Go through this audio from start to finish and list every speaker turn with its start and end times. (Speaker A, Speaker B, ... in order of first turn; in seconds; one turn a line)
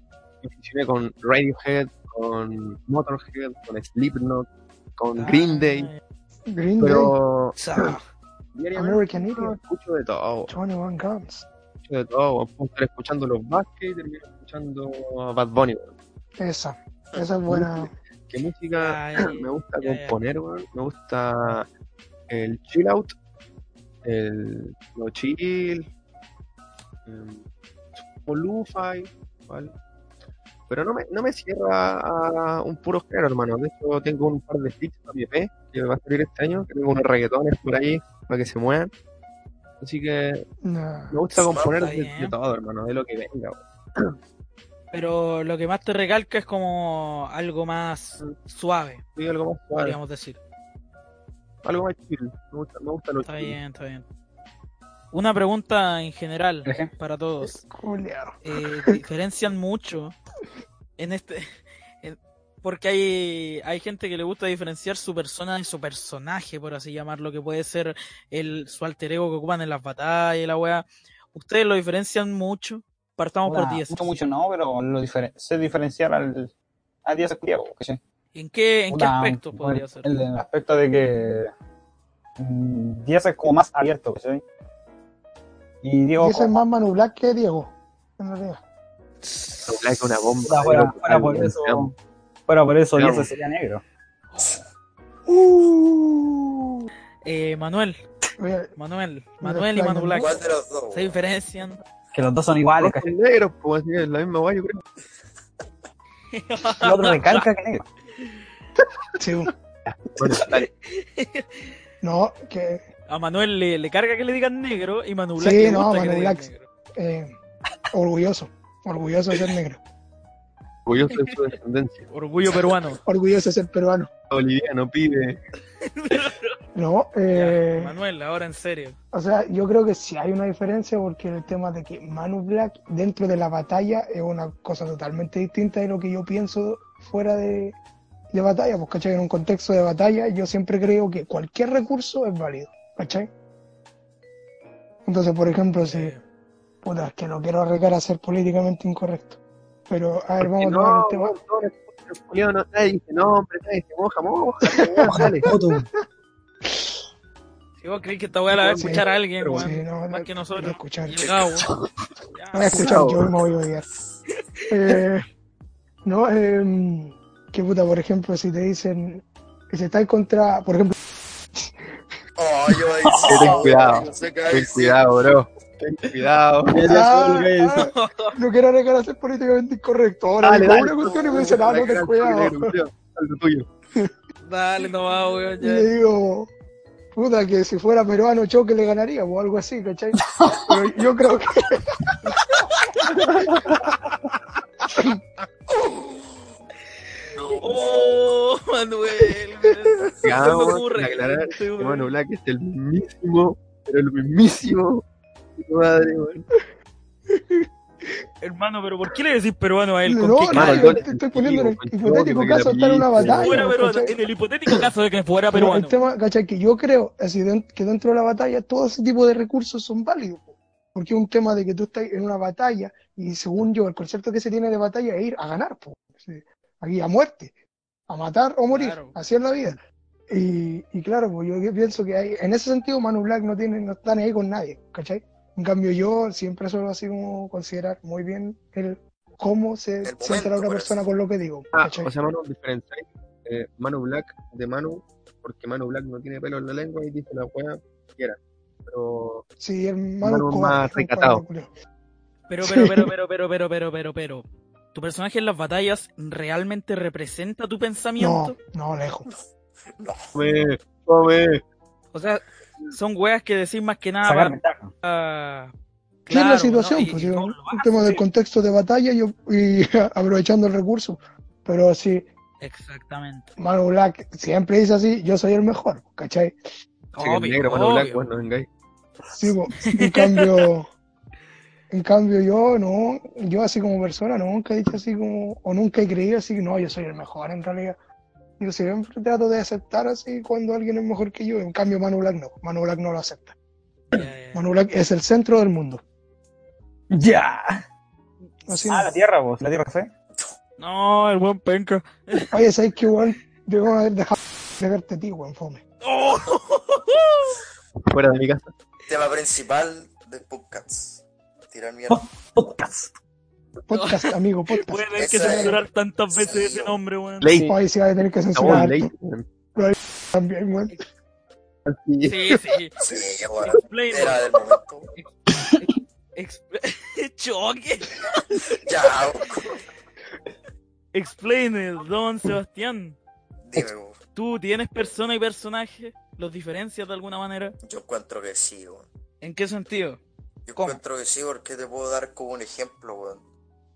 Speaker A: 0.4-4.5
Speaker A: 5.0-5.9
Speaker B: 5.2-6.0
Speaker C: 6.5-7.1
Speaker A: 6.8-7.8
Speaker B: 7.6-8.0
Speaker A: 8.5-10.5
Speaker C: 8.8-9.6
Speaker C: 10.5-11.5
Speaker A: 11.8-15.9
Speaker C: 16.4-17.9
Speaker A: 17.5-21.7
Speaker B: 18.7-20.1
Speaker A: 22.3-23.1
Speaker A: 24.0-25.9
Speaker A: 27.1-27.4
Speaker A: 28.0-29.7
Speaker A: 30.7-38.9
Speaker A: 39.8-40.4
Speaker C: 40.6-41.2
Speaker A: 41.1-44.1
Speaker D: 41.5-41.8
Speaker B: 41.7-42.3
Speaker B: 44.9-49.0
Speaker A: 49.1-50.0
Speaker B: 49.8-50.4
Speaker A: 51.6-53.5
Speaker B: 53.2-54.0
Speaker B: 55.1-57.6
Speaker E: 56.6-56.9
Speaker C: 57.4-59.0
Speaker B: 58.4-60.1
Speaker B: 61.0-74.1
Speaker E: 73.5-76.5
Speaker E: 77.0-78.0
Speaker B: 78.3-80.1
Speaker E: 78.9-81.5
Speaker E: 82.4-84.4
Speaker E: 85.8-86.5
Speaker C: 86.2-88.6
Speaker A: 89.7-91.9
Speaker E: 90.5-91.9
Speaker E: 92.5-93.8
Speaker A: 93.0-93.3
Speaker C: 95.2-96.9
Speaker B: 97.2-98.0
Speaker C: 98.4-98.8
Speaker B: 98.8-100.3
Speaker C: 99.4-100.3
Speaker D: 100.2-101.2
Speaker B: 100.9-101.8
Speaker E: 102.1-103.1
Speaker A: 102.8-104.8
Speaker B: 106.3-107.5
Speaker E: 106.8-107.9
Speaker C: 109.2-109.5
Speaker A: 109.9-110.7
Speaker B: 110.5-111.7
Speaker C: 112.0-112.8
Speaker B: 113.1-116.7
Speaker C: 115.4-117.4
Speaker C: 117.9-119.8
Speaker A: 120.9-122.1
Speaker B: 122.1-123.0
Speaker C: 123.0-124.1
Speaker A: 124.3-125.4
Speaker B: 125.8-126.5
Speaker C: 126.7-128.0
Speaker B: 127.3-129.0
Speaker C: 129.1-137.8
Speaker C: 138.3-143.3
Speaker C: 145.1-146.2
Speaker B: 145.9-146.2
Speaker C: 146.8-151.4
Speaker A: 150.4-155.5
Speaker C: 154.7-155.2
Speaker E: 155.1-155.9
Speaker C: 156.7-156.9
Speaker B: 157.8-161.7
Speaker A: 158.5-159.7
Speaker C: 158.8-161.2
Speaker B: 162.3-162.8
Speaker C: 162.5-163.8
Speaker A: 162.7-163.2
Speaker C: 164.7-165.2
Speaker C: 166.0-171.0
Speaker C: 171.5-171.9
Speaker D: 172.4-175.0
Speaker A: 173.3-176.9
Speaker E: 176.7-177.9
Speaker C: 176.8-182.8
Speaker B: 177.8-178.3
Speaker A: 180.4-183.7
Speaker B: 184.4-185.9
Speaker C: 185.6-186.5
Speaker C: 187.1-192.1
Speaker E: 190.3-190.7
Speaker B: 192.7-193.0
Speaker C: 194.9-195.2
Speaker D: 195.7-196.2
Speaker D: 197.4-198.0
Speaker B: 197.5-202.1
Speaker A: 200.2-205.0
Speaker A: 205.6-206.5
Speaker C: 207.3-208.2
Speaker B: 208.4-211.1
Speaker C: 210.0-214.2
Speaker A: 210.5-213.7
Speaker B: 213.3-216.0
Speaker C: 215.5-227.5
Speaker C: 228.1-242.1
Speaker B: 228.7-229.2
Speaker D: 240.0-241.0
Speaker A: 241.7-249.4
Speaker C: 249.6-251.7
Speaker A: 250.2-251.4
Speaker B: 252.5-258.5
Speaker C: 252.6-253.1
Speaker C: 258.2-259.3
Speaker D: 260.0-260.3
Speaker A: 260.3-261.6
Speaker B: 262.1-265.7
Speaker E: 264.2-264.9
Speaker C: 266.2-272.3
Speaker B: 266.3-268.2
Speaker B: 272.6-273.5
Speaker C: 273.6-276.6
Speaker B: 277.1-278.4
Speaker A: 277.2-278.7
Speaker C: 279.4-280.9
Speaker B: 279.9-280.4
Speaker C: 281.9-288.0
Speaker C: 288.6-293.6
Speaker B: 294.1-294.6
Speaker C: 294.5-296.0
Speaker E: 297.1-297.8
Speaker C: 298.7-299.1
Speaker E: 298.9-300.1
Speaker B: 300.8-302.5
Speaker C: 302.5-305.8
Speaker B: 306.0-307.6
Speaker A: 308.0-308.7
Speaker D: 309.1-312.2
Speaker E: 312.1-313.1
Speaker C: 313.9-315.8
Speaker B: 313.9-317.5
Speaker D: 315.2-315.8
Speaker D: 316.3-317.0
Speaker A: 317.4-317.7
Speaker C: 317.7-319.1
Speaker A: 318.5-319.4
Speaker C: 319.8-321.0
Speaker A: 321.9-322.4
Speaker B: 322.2-323.0
Speaker D: 323.0-325.1
Speaker B: 323.7-324.5
Speaker E: 325.5-325.8
Speaker B: 325.8-328.6
Speaker D: 328.8-329.8
Speaker B: 331.1-333.2
Speaker D: 333.6-334.2
Speaker B: 334.3-337.8
Speaker D: 337.8-339.1
Speaker B: 339.4-340.2
Speaker D: 340.7-343.4